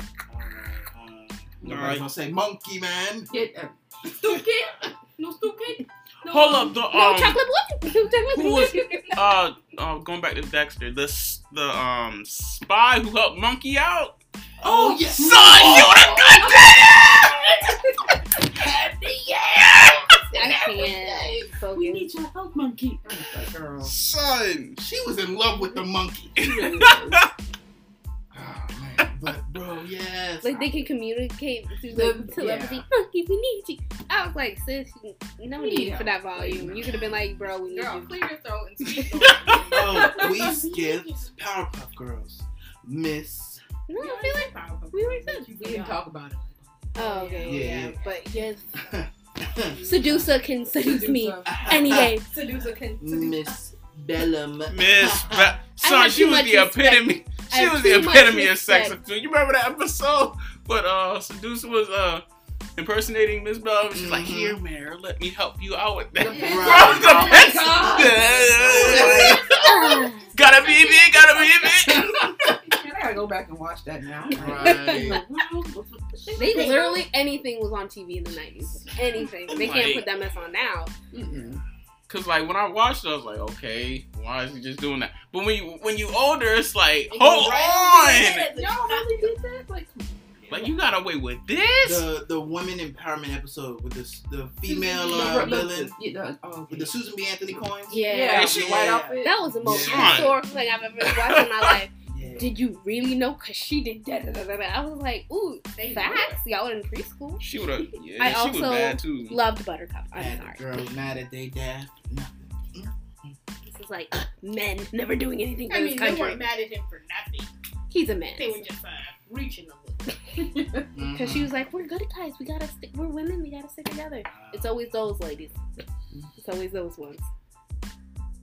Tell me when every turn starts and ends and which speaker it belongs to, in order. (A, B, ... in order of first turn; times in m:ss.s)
0:00.3-0:03.3 A
0:01.6-0:02.1 B
0:03.3-0:03.8 C
0:04.1-0:06.9 D
0:06.3-0:07.4 B
0:06.9-0:09.2 E
0:08.2-0:09.2 D
0:08.3-0:14.2 B
0:14.6-0:17.4 A
0:14.6-0:16.7 C
0:15.1-0:17.3 B
0:18.6-0:19.9 A
0:20.3-0:23.9 C
0:20.3-0:22.1 E
0:23.8-0:24.8 B
0:24.8-0:26.4 A
0:26.4-0:27.3 C
0:26.4-0:27.3 B
0:28.3-0:30.7 A
0:30.4-0:38.2 E
0:31.9-0:32.8 C
0:35.5-0:37.0 C
0:37.7-0:41.3 D
0:39.0-0:39.6 B
0:39.7-0:43.6 A
0:39.8-0:40.7 C
0:43.9-0:44.5 E
0:44.0-0:46.0 D
0:44.9-0:47.3 C
0:47.0-0:48.6 E
0:47.0-0:48.7 D
0:47.4-0:48.0 A
0:48.8-0:50.3 A
0:49.8-0:52.3 E
0:50.7-0:51.7 C
0:51.4-0:52.2 A
0:52.1-0:53.6 D
0:53.0-0:55.6 A
0:54.7-1:02.2 B
0:55.8-0:59.0 E
1:02.8-1:12.4 B
1:03.9-1:04.6 A
1:06.2-1:09.4 C
1:06.4-1:07.5 D
1:06.4-1:07.2 A
1:08.7-1:09.4 A
1:08.8-1:09.3 D
1:09.5-1:10.3 E
1:12.0-1:12.2 A
1:12.0-1:17.0 C
1:14.3-1:15.2 A
1:14.6-1:15.1 E
1:16.4-1:20.9 E
1:16.4-1:16.8 D
1:19.5-1:20.1 B
1:21.1-1:21.6 C
1:21.3-1:21.6 A
1:22.1-1:28.5 B
1:27.1-1:29.3 D
1:28.5-1:30.1 C
1:30.5-1:32.1 B
1:31.8-1:36.0 A
1:34.7-1:37.0 C
1:34.7-1:35.6 D
1:36.7-1:40.4 A
1:37.9-1:47.4 E
1:38.1-1:39.4 C
1:38.3-1:39.0 B
1:39.6-1:40.4 B
1:41.0-1:41.8 B
1:42.1-1:42.6 A
1:45.8-1:46.4 D
1:47.4-1:49.4 B
1:48.2-1:50.6 E
1:50.1-1:53.4 A
1:53.7-1:56.5 E
1:55.7-1:57.5 D
1:57.9-1:58.6 E
1:58.4-2:00.2 D
2:00.9-2:01.5 A
2:01.1-2:05.6 E
2:04.3-2:04.8 A
2:06.4-2:07.2 E